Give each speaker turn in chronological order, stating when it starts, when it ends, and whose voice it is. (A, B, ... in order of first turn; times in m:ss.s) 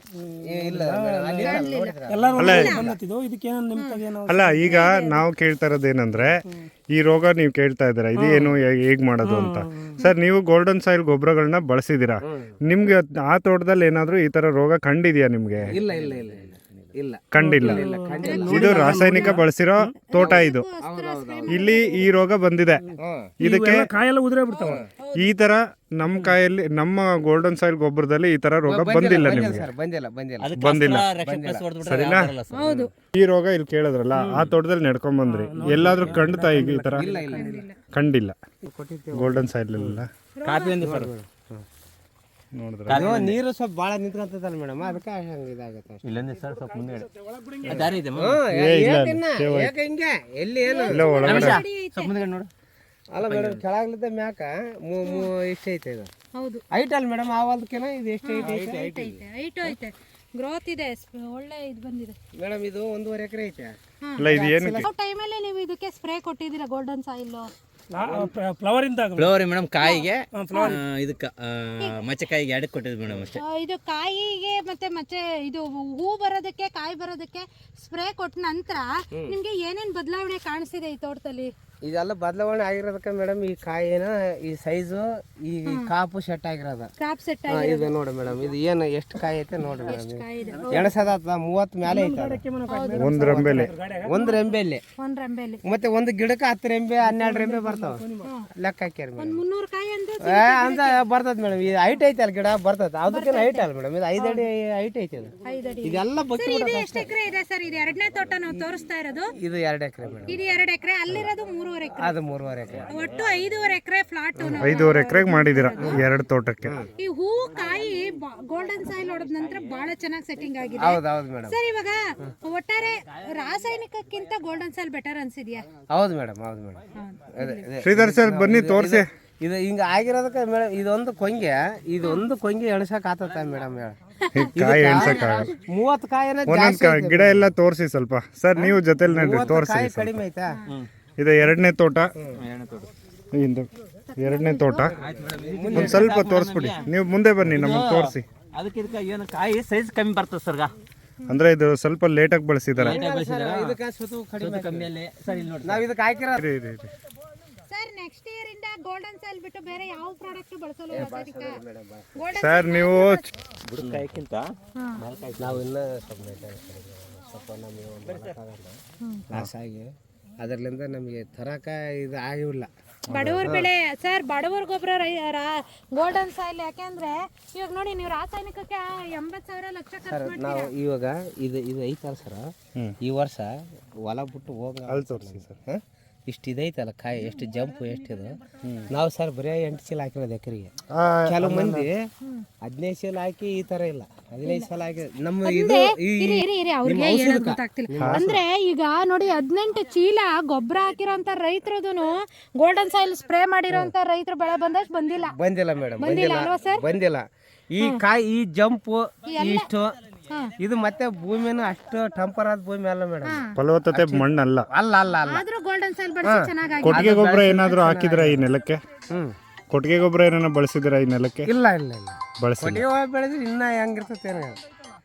0:00.1-0:04.8 A
0:00.4-0:02.7 B
0:01.4-0:02.9 C
0:02.4-0:02.9 D
0:03.8-0:04.0 C
0:04.3-0:06.4 D
0:04.7-0:05.2 C
0:06.9-0:15.8 D
0:08.2-0:08.5 A
0:09.2-0:10.0 A
0:12.2-0:12.6 B
0:15.7-0:18.9 B
0:15.7-0:16.9 E
0:17.3-0:20.7 D
0:17.4-0:20.0 A
0:18.2-0:19.3 C
0:20.1-0:22.1 C
0:20.2-0:21.7 B
0:21.5-0:22.9 D
0:23.0-0:23.3 B
0:23.4-0:24.8 A
0:23.4-0:23.9 D
0:24.5-0:25.3 C
0:25.2-0:29.7 D
0:28.7-0:30.5 B
0:30.4-0:32.7 E
0:30.6-0:31.1 D
0:31.2-0:31.7 B
0:31.8-0:32.3 D
0:32.5-0:32.9 C
0:33.1-0:37.1 D
0:34.1-0:34.5 A
0:35.2-0:37.6 A
0:35.8-0:36.2 E
0:37.0-0:37.5 B
0:37.3-0:37.8 C
0:37.9-0:38.4 D
0:38.6-0:40.0 B
0:39.1-0:40.1 D
0:40.4-0:40.8 C
0:40.4-0:41.1 E
0:40.8-0:41.6 B
0:42.6-0:43.1 D
0:42.9-0:43.4 E
0:42.9-0:46.0 B
0:46.0-0:47.1 E
0:46.4-0:47.9 A
0:47.6-0:47.9 D
0:47.6-0:48.4 E
0:48.2-0:51.5 B
0:48.5-0:49.7 D
0:50.6-0:52.1 C
0:50.9-0:51.6 D
0:51.2-0:52.5 E
0:53.1-0:56.1 B
0:53.2-0:53.6 E
0:55.0-0:55.3 C
0:56.4-0:56.6 C
0:56.7-0:59.1 B
0:58.2-1:02.2 C
0:58.4-0:59.2 E
1:02.4-1:04.9 B
1:04.0-1:07.5 C
1:04.2-1:04.9 D
1:07.9-1:09.3 A
1:08.0-1:08.3 B
1:09.2-1:13.4 E
1:09.8-1:10.1 C
1:10.3-1:10.8 A
1:13.4-1:21.5 C
1:21.8-1:26.9 B
1:27.0-1:27.9 C
1:27.5-1:32.4 B
1:29.9-1:31.0 C
1:30.5-1:30.9 A
1:31.8-1:34.3 A
1:32.7-1:33.4 C
1:32.9-1:33.7 D
1:33.2-1:34.8 B
1:34.1-1:35.6 C
1:35.6-1:38.0 B
1:37.0-1:38.3 A
1:38.6-1:39.4 B
1:39.2-1:41.0 C
1:40.2-1:47.1 B
1:43.1-1:44.4 C
1:45.4-1:49.3 C
1:49.4-1:50.4 B
1:50.3-1:52.2 C
1:52.0-1:52.9 B
1:52.7-1:53.0 E
1:52.9-1:56.0 C
1:54.4-1:54.8 B
1:54.5-1:56.8 D
1:57.0-2:05.7 C
2:00.8-2:01.6 B
2:05.9-2:14.0 B
2:07.0-2:07.6 C
2:07.8-2:09.1 D
2:14.3-2:15.5 C
2:14.3-2:15.5 D
2:14.5-2:17.5 B
2:16.4-2:20.2 D
2:18.6-2:20.6 B
2:21.2-2:22.1 D
2:22.3-2:22.9 E
2:23.3-2:24.9 D
2:24.1-2:24.9 C
2:24.8-2:26.2 B
2:25.0-2:26.9 E
2:25.7-2:28.2 D
2:27.4-2:30.7 E
2:31.3-2:33.0 D
2:32.8-2:33.8 E
2:32.9-2:34.9 B
2:34.4-2:35.9 E
2:35.6-2:36.4 B
2:36.4-2:36.9 D
2:37.7-2:41.6 C
2:40.9-2:42.1 B
2:42.2-2:43.3 C
2:42.4-2:43.3 D
2:43.6-2:45.6 E
2:44.8-2:45.0 C
2:45.4-2:52.7 B
2:48.0-2:48.4 E
2:49.0-2:49.3 C
2:53.1-2:53.6 D
2:53.1-3:00.7 C
3:00.0-3:03.5 B
3:04.0-3:10.7 B
3:04.9-3:05.6 D
3:08.6-3:08.9 D
3:10.9-3:11.9 D
3:11.3-3:12.0 B
3:12.6-3:18.4 B
3:14.4-3:14.7 C
3:15.4-3:25.3 C
3:18.0-3:18.3 D
3:25.3-3:30.0 B
3:26.0-3:26.8 C
3:29.3-3:29.7 C
3:30.3-3:30.5 C
3:30.6-3:35.4 B
3:33.2-3:33.5 C
3:33.6-3:34.7 D
3:35.2-3:37.1 C
3:36.2-3:38.5 B
3:36.8-3:38.8 D
3:39.7-3:41.5 D
3:41.5-3:44.6 B
3:42.4-3:42.9 D